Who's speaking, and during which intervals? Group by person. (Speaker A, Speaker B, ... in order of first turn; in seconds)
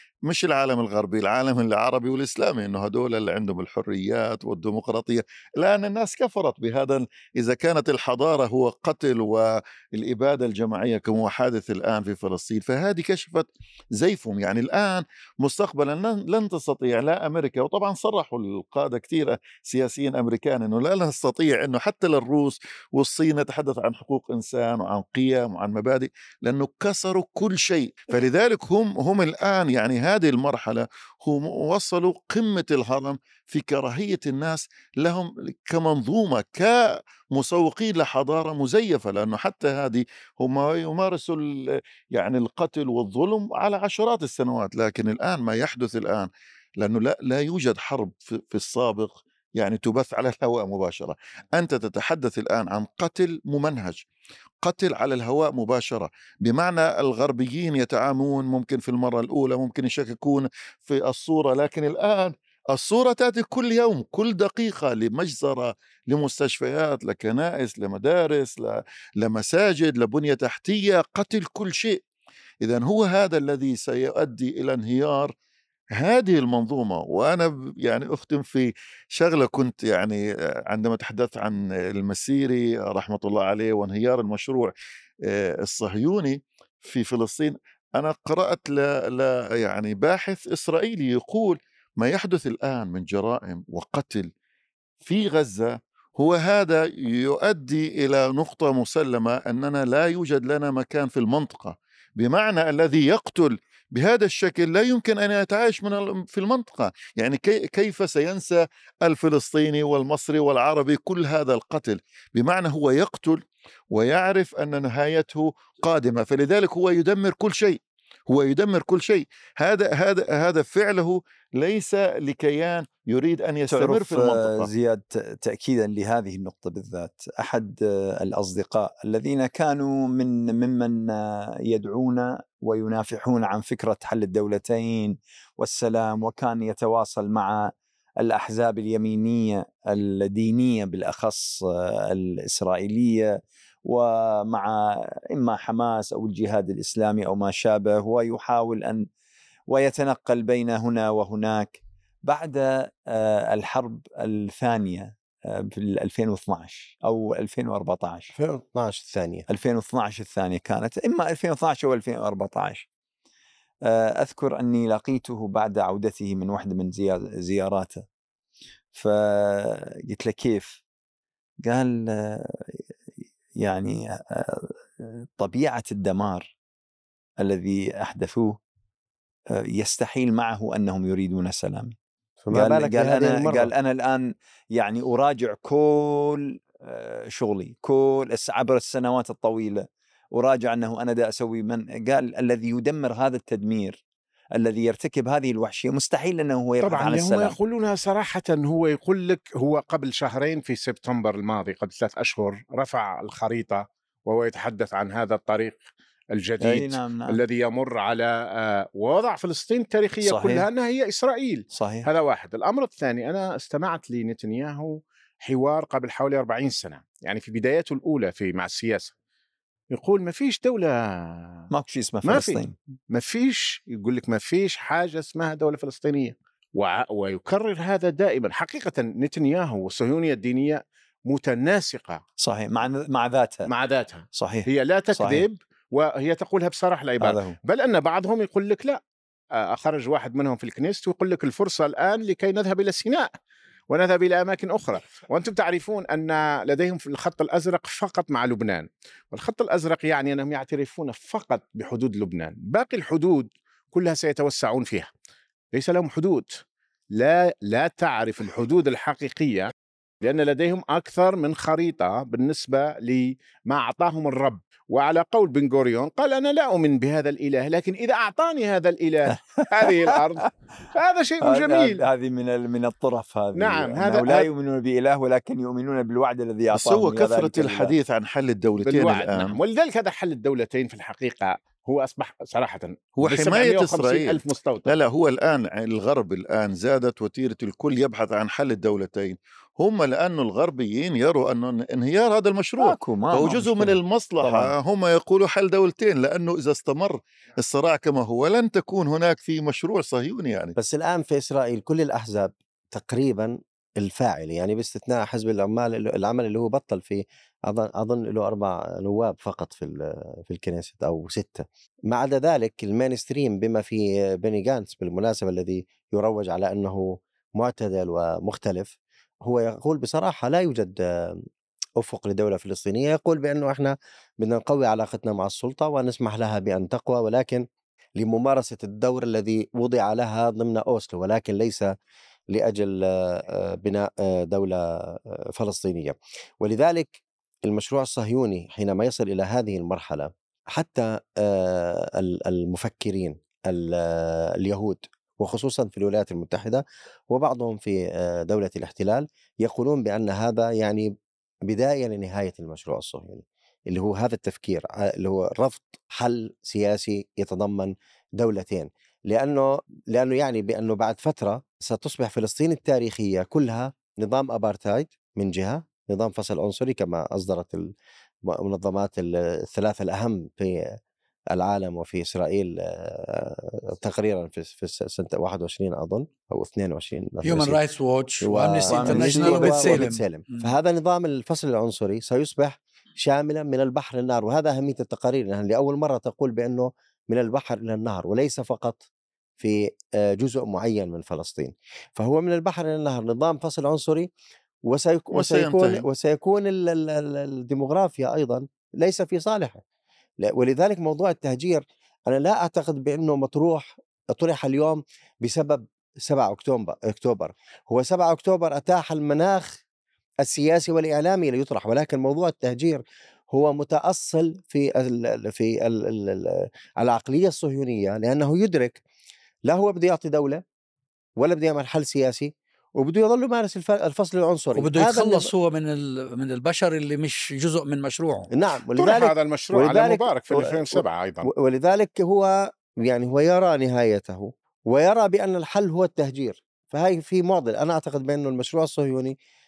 Speaker A: 0.2-54.0, 54.6-72.0, 72.6-75.3, 75.9-84.7, 85.2-94.3, 95.0-124.7, 276.7-279.6, 283.2-300.8, 395.3-396.1
Speaker B: 123.7-149.1, 149.7-158.3, 159.5-162.8, 163.8-168.0, 168.9-170.8, 171.6-172.8, 173.6-176.5, 177.4-178.6, 179.5-181.9, 182.5-194.0, 194.6-197.6, 206.6-207.4, 210.2-210.7, 211.7-212.1, 221.7-222.7, 232.4-233.7, 234.3-235.4, 237.2-237.6, 269.3-270.5, 271.4-277.9, 292.8-294.7, 378.8-380.1
Speaker C: 158.3-159.4, 182.4-183.7, 300.8-321.4, 322.0-327.6, 328.2-331.9, 332.5-351.1, 351.6-367.9, 368.4-371.0, 371.5-377.8, 378.4-389.0, 389.6-394.3, 394.9-399.8, 400.4-409.8, 410.4-419.0, 419.6-420.6, 421.4-425.5, 428.5-439.4
Speaker D: 196.8-219.1, 219.9-221.7, 222.2-232.2, 233.7-239.0, 239.5-243.3, 243.9-255.1, 255.7-256.5, 257.1-272.0, 273.5-274.5, 278.8-284.9, 428.9-431.5
Speaker E: 377.4-380.7, 424.7-428.5